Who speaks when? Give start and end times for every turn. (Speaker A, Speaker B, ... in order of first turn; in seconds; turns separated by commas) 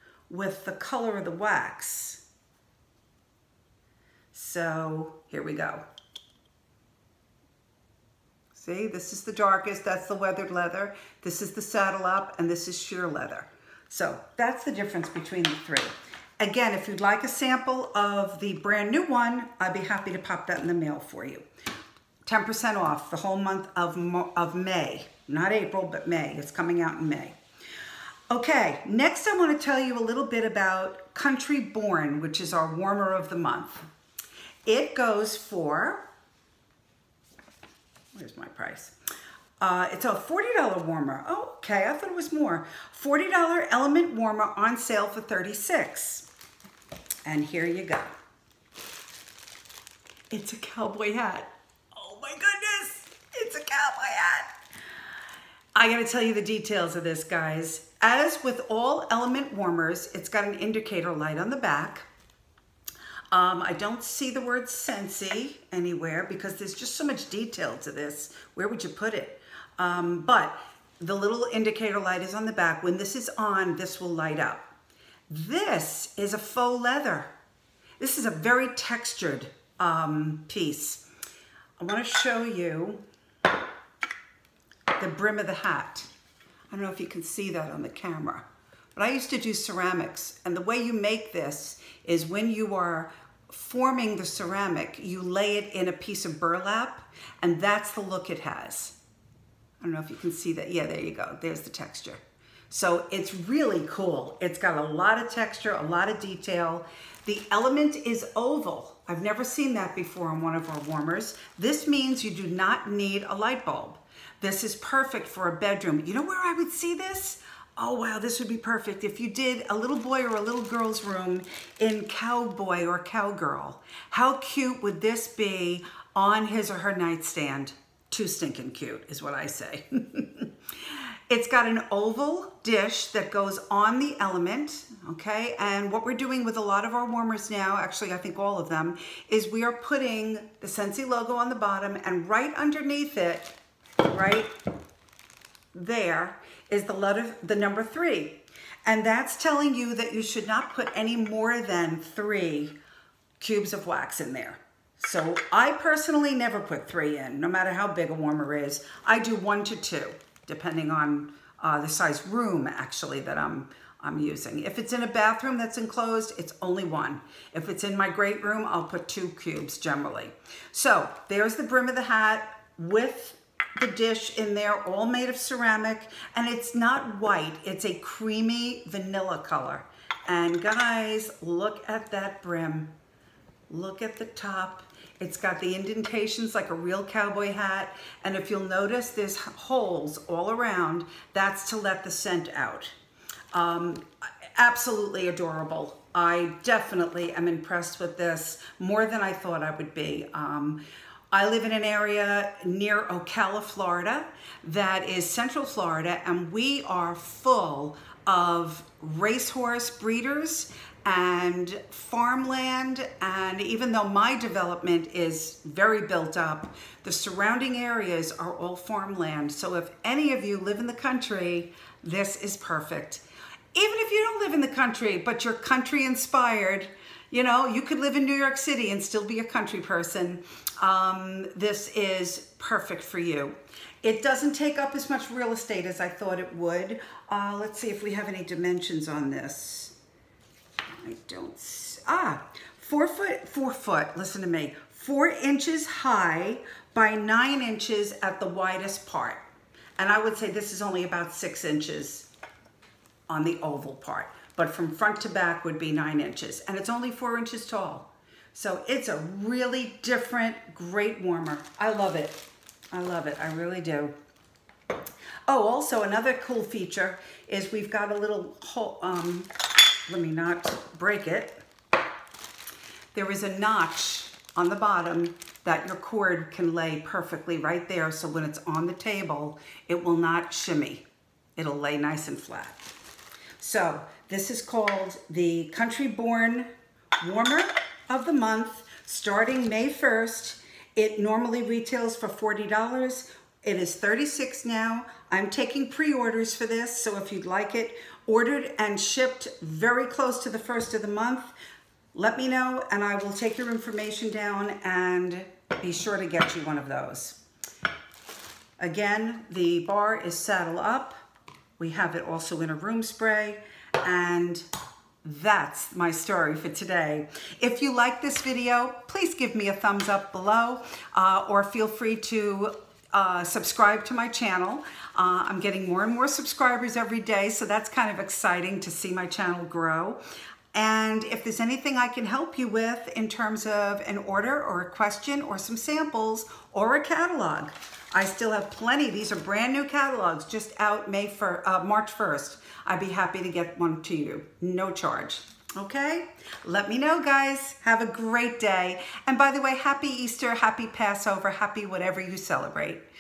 Speaker A: 0.3-2.2, Speaker A: 4.3-5.8, Speaker A: 8.5-21.4, Speaker A: 22.2-27.4, Speaker A: 28.3-33.9, Speaker A: 34.6-36.0, Speaker A: 38.1-38.9, Speaker A: 39.6-46.3, Speaker A: 47.2-48.1, Speaker A: 50.3-54.5, Speaker A: 55.8-62.1, Speaker A: 63.3-74.7, Speaker A: 75.3-77.3, Speaker A: 78.0-81.0, Speaker A: 81.8-83.0, Speaker A: 85.0-86.1, Speaker A: 86.7-88.5, Speaker A: 89.0-99.0, Speaker A: 99.8-144.5, Speaker A: 145.7-152.8, Speaker A: 153.4-182.9, Speaker A: 183.7-192.9, Speaker A: 193.5-200.8, Speaker A: 201.3-240.0, Speaker A: 241.0-249.4, Speaker A: 250.0-252.3, Speaker A: 253.3-264.1, Speaker A: 265.5-269.5, Speaker A: 270.1-271.6, Speaker A: 273.1-281.1, Speaker A: 281.6-282.8, Speaker A: 283.6-286.7, Speaker A: 287.2-301.5, Speaker A: 302.1-307.4, Speaker A: 308.8-311.2, Speaker A: 311.8-314.7, Speaker A: 315.2-330.2, Speaker A: 330.7-353.1